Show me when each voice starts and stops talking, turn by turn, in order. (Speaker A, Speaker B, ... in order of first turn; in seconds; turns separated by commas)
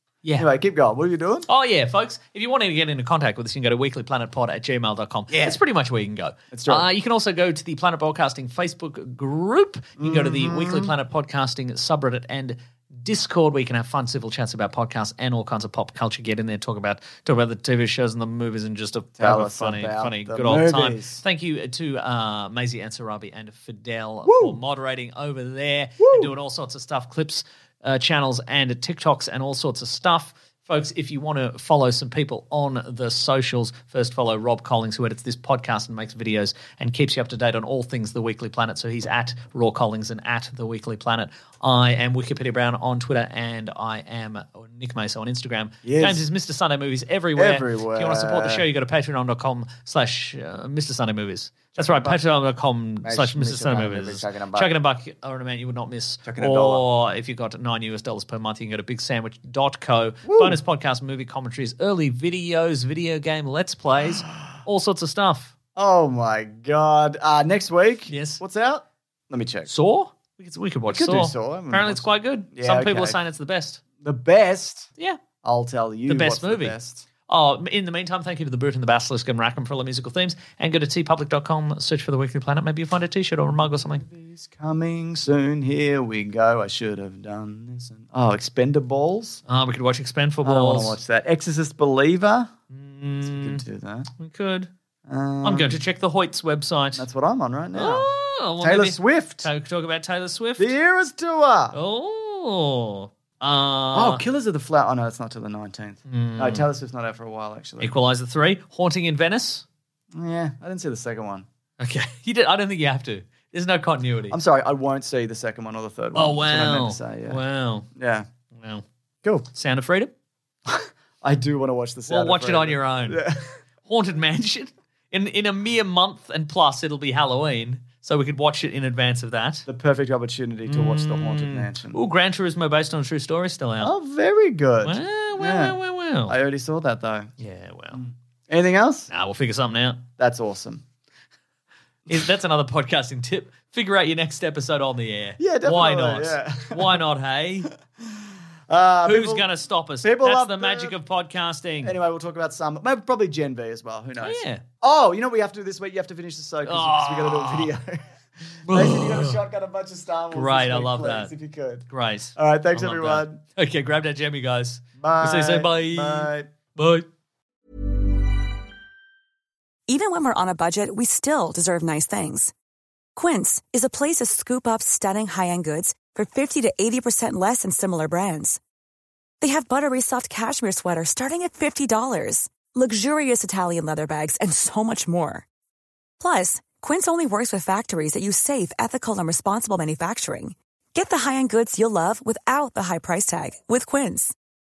Speaker A: 0.4-1.5, Speaker B: 1.5-65.5, Speaker A: 5.3-5.6, Speaker A: 6.5-6.9, Speaker A: 10.0-10.9, Speaker A: 19.2-21.2, Speaker A: 24.2-24.6, Speaker A: 26.0-26.3, Speaker A: 45.8-46.3, Speaker A: 47.4-48.7, Speaker A: 51.8-52.2, Speaker A: 53.0-54.7, Speaker A: 56.2-56.8, Speaker A: 60.2-60.6, Speaker A: 65.8-69.7, Speaker B: 68.1-68.4, Speaker B: 69.7-73.8, Speaker A: 70.9-73.2, Speaker A: 74.0-74.9, Speaker A: 75.4-77.1, Speaker B: 76.1-76.8, Speaker B: 77.3-84.0, Speaker A: 83.9-89.4, Speaker B: 89.5-91.0, Speaker A: 90.5-92.5, Speaker B: 92.7-93.6, Speaker A: 93.2-94.1, Speaker B: 94.2-94.7, Speaker A: 95.1-95.8, Speaker B: 95.4-97.1, Speaker A: 97.0-99.5, Speaker B: 97.7-100.8, Speaker A: 100.6-101.8, Speaker B: 101.7-104.2, Speaker A: 103.9-108.0, Speaker B: 106.1-106.7, Speaker B: 107.8-109.7, Speaker A: 110.1-111.5, Speaker B: 111.8-114.4, Speaker A: 114.3-117.4, Speaker B: 116.2-117.9, Speaker A: 117.9-118.3, Speaker B: 118.5-118.8, Speaker B: 119.5-120.1, Speaker A: 120.7-123.5, Speaker B: 122.1-123.2, Speaker B: 123.8-129.7, Speaker A: 129.7-132.0, Speaker B: 130.7-133.9, Speaker A: 133.8-137.3, Speaker B: 134.8-136.4, Speaker B: 137.4-138.0, Speaker A: 137.9-139.1, Speaker B: 139.1-140.0, Speaker A: 140.2-140.8, Speaker B: 142.1-147.7, Speaker A: 145.4-147.0, Speaker A: 148.0-149.5, Speaker B: 149.0-152.0, Speaker A: 150.0-151.0, Speaker A: 151.8-158.1, Speaker B: 154.2-154.6, Speaker B: 156.6-157.7, Speaker B: 158.7-159.4, Speaker A: 158.7-163.4, Speaker B: 160.3-161.3, Speaker B: 161.9-167.1, Speaker A: 165.0-166.5, Speaker C: 169.9-172.5, Speaker C: 173.2-178.6, Speaker C: 179.4-185.4, Speaker C: 186.2-194.3